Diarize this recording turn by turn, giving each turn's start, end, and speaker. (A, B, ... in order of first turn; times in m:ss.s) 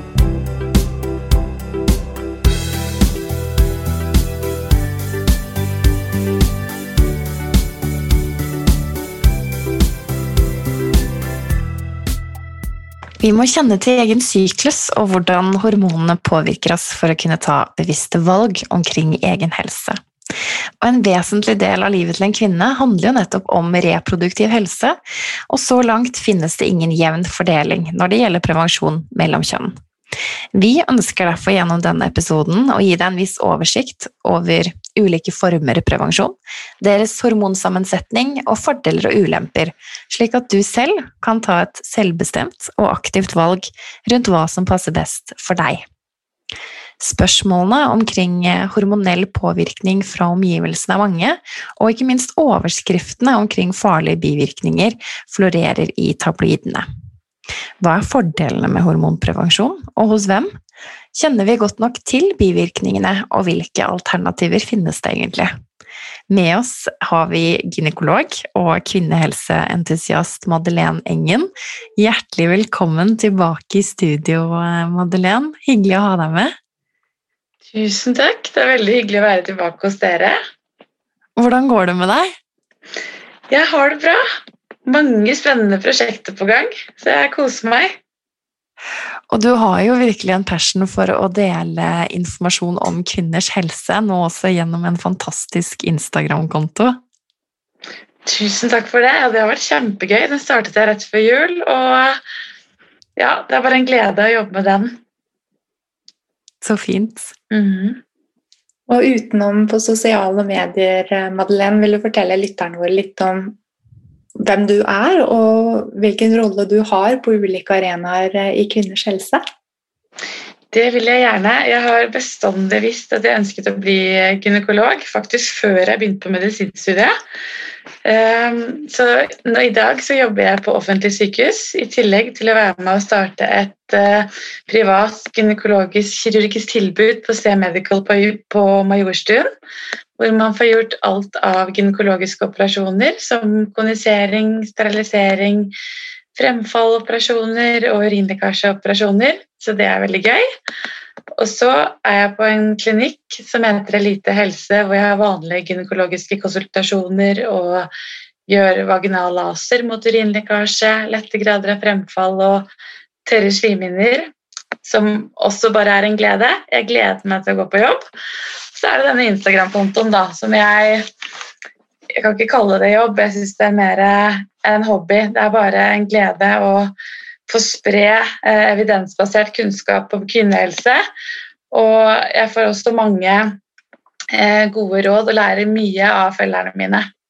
0:13.2-0:20.0 A
0:20.8-0:25.0 A
0:25.5-0:29.8 A
0:30.5-0:45.8 A
0:47.0-0:56.9 A
0:57.8-1:00.5 A
1:01.1-1:05.5 A
1:06.3-1:16.5 A
1:17.7-1:20.4 B
1:21.4-1:22.3 A
1:23.5-1:24.2 B
1:24.9-1:27.9 B
1:29.3-1:37.0 A
1:38.3-1:42.2 B
1:43.2-1:45.0 B
1:46.6-1:47.3 A
1:47.5-1:48.0 B
1:48.9-1:53.6 C
1:54.4-1:59.4 C
2:00.7-2:07.1 B
2:08.0-2:19.5 B
2:20.2-2:25.7 B
2:26.3-2:30.4 B
2:31.4-2:37.9 B
2:38.5-2:42.7 B
2:43.2-2:44.3 B
2:44.8-2:48.0 B
2:48.7-2:51.1 B
2:52.1-2:56.9 B
2:57.5-3:01.0 B
3:01.7-3:03.6 B
3:04.3-3:07.1 B